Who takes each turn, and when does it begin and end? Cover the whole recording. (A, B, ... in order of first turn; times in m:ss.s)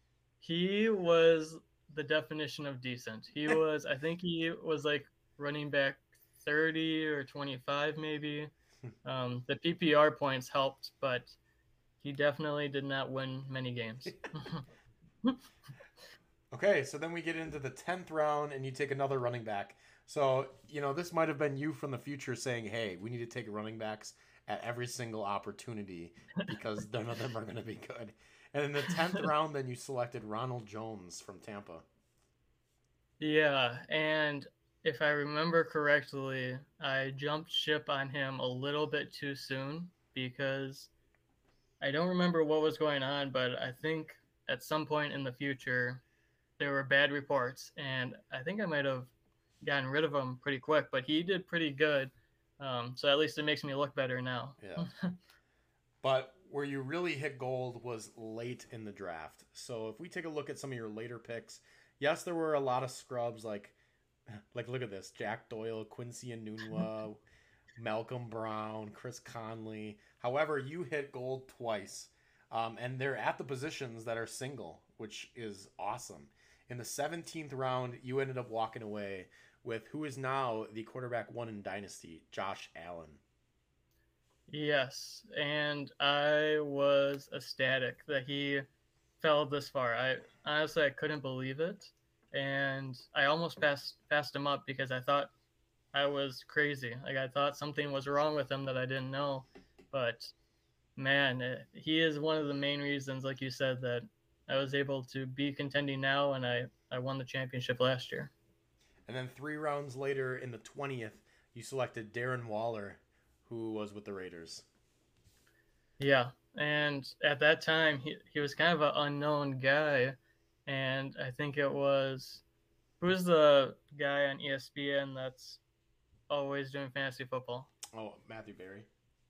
0:00.4-0:08.5 A
0:09.0-0:11.4 A
0:12.0-0:14.6 A
0:16.5-0:31.9 B
0:33.2-0:40.9 A
0:41.8-0:46.0 A
0:46.6-0:55.2 A
0:54.6-0:54.9 B
0:56.0-1:03.8 B
1:04.3-1:07.2 B
1:07.8-1:23.2 B
1:24.5-1:28.7 A
1:29.2-1:35.3 A
1:35.9-1:40.3 A
1:41.0-1:48.3 A
1:49.1-1:54.7 B
1:56.0-2:02.4 A
2:03.0-2:05.6 A
2:06.3-2:07.7 A
2:07.9-2:08.9 B